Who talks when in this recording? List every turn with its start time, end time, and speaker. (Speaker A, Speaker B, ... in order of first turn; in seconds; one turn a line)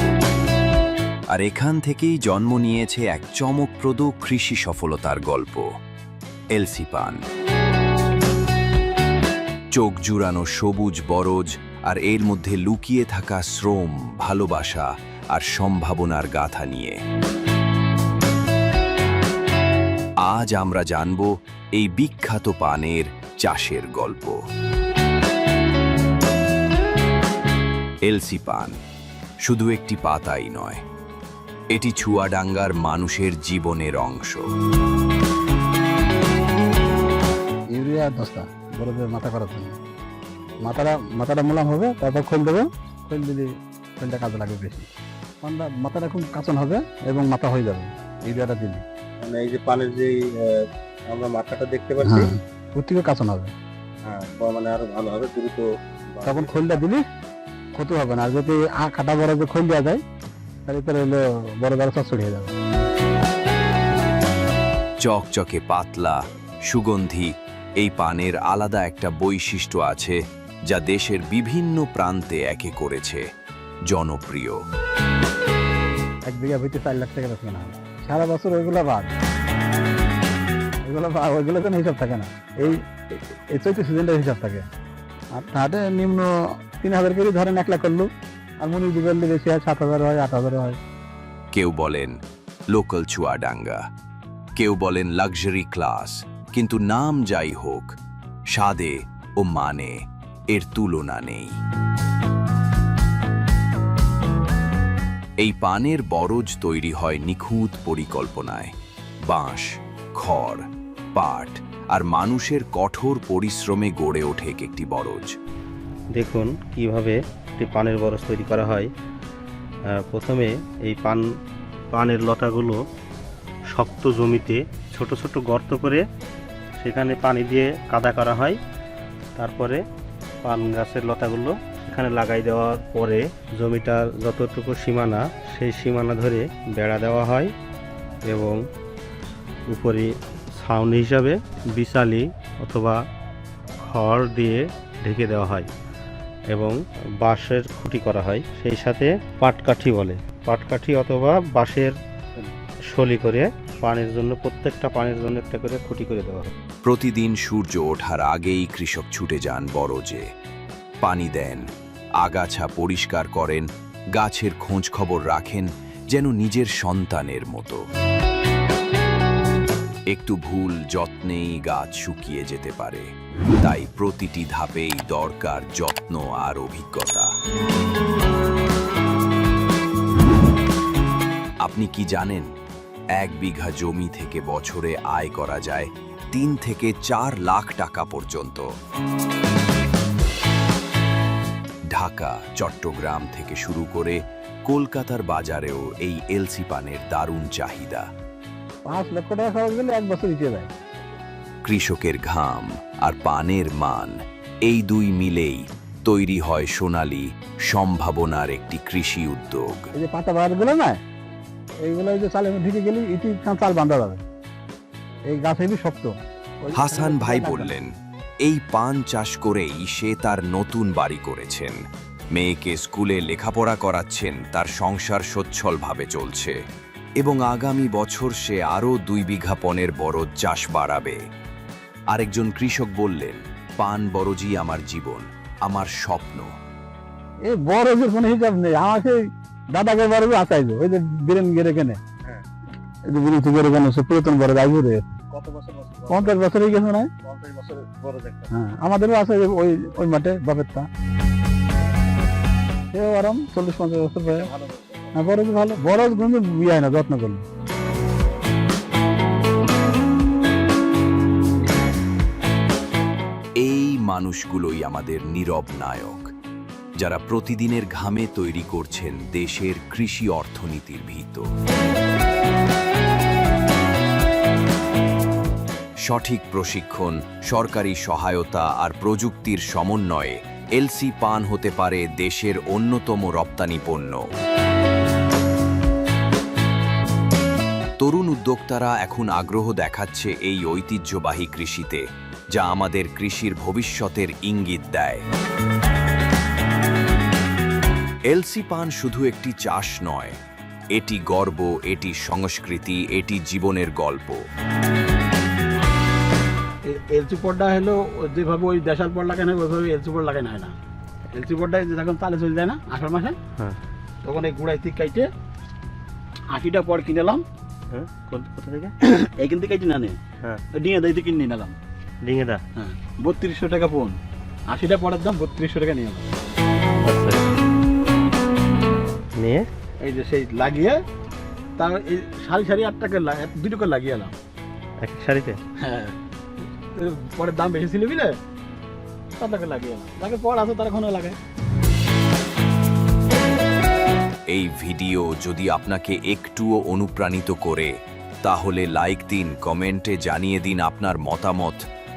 Speaker A: 1.3-5.7
Speaker A: 6.5-7.2
Speaker A: 9.7-17.0
Speaker A: 20.2-24.4
Speaker A: 28.1-28.8
Speaker A: 29.4-30.8
Speaker A: 31.7-34.5
Speaker B: 37.7-39.7
Speaker B: 40.6-43.5
Speaker B: 44.0-44.9
Speaker B: 45.4-48.8
Speaker C: 49.2-52.3
Speaker B: 52.0-53.5
Speaker C: 54.1-56.8
Speaker B: 56.2-57.0
Speaker B: 57.8-60.0
Speaker B: 60.7-62.5
Speaker A: 65.0-73.2
Speaker A: 73.9-74.6
Speaker B: 76.3-79.1
Speaker B: 80.8-82.9
Speaker B: 83.5-84.7
Speaker B: 85.3-88.1
Speaker B: 88.6-90.8
Speaker A: 91.5-92.2
Speaker A: 92.7-93.8
Speaker A: 94.6-97.9
Speaker A: 98.5-100.0
Speaker A: 100.5-101.5
Speaker A: 105.4-108.7
Speaker A: 109.3-115.3
Speaker D: 116.2-118.9
Speaker D: 119.9-121.2
Speaker D: 121.9-122.8
Speaker D: 123.7-126.0
Speaker D: 126.8-128.6
Speaker D: 129.3-129.8
Speaker D: 130.4-137.5
Speaker D: 138.2-138.6
Speaker D: 139.7-143.0
Speaker D: 143.8-145.7
Speaker D: 146.5-151.9
Speaker D: 152.9-156.5
Speaker A: 156.8-160.2
Speaker A: 161.0-161.7
Speaker A: 162.2-167.8
Speaker A: 170.1-173.1
Speaker A: 173.6-177.3
Speaker A: 181.6-182.5
Speaker A: 183.2-188.7
Speaker A: 191.9-198.1
Speaker B: 198.9-200.7
Speaker A: 201.6-209.9
Speaker B: 209.9-211.0
Speaker B: 211.8-214.2
Speaker B: 215.3-216.1
Speaker B: 216.6-217.8
Speaker A: 216.7-221.8
Speaker A: 222.3-226.6
Speaker A: 227.2-231.2
Speaker A: 232.1-236.5
Speaker B: 237.5-239.2
Speaker B: 239.7-242.0
Speaker B: 243.1-245.2
Speaker C: 245.3-246.4
Speaker B: 246.1-247.1
Speaker C: 247.2-248.5
Speaker B: 248.5-250.9
Speaker B: 252.9-254.5
Speaker C: 254.5-255.0
Speaker B: 255.1-257.4
Speaker A: 263.6-266.3
Speaker A: 267.0-271.4
Speaker A: 276.1-284.2
Speaker A: 288.0-292.0
Speaker A: 292.5-295.2
Speaker A: 298.3-300.4
Speaker A: 300.9-304.4
Speaker E: 306.8-310.7
Speaker C: 308.5-309.2
Speaker E: 311.3-313.4
Speaker E: 314.2-315.3
Speaker E: 316.5-317.4
Speaker D: 317.9-318.9
Speaker E: 319.0-320.2
Speaker E: 320.7-321.8
Speaker D: 322.2-322.6
Speaker E: 322.8-326.3
Speaker D: 327.0-327.6
Speaker D: 329.4-329.7
Speaker E: 330.0-331.0
Speaker E: 331.8-334.3
Speaker D: 335.0-335.6
Speaker E: 335.8-336.1
Speaker E: 336.9-338.4
Speaker E: 339.4-341.4
Speaker A: 344.5-351.8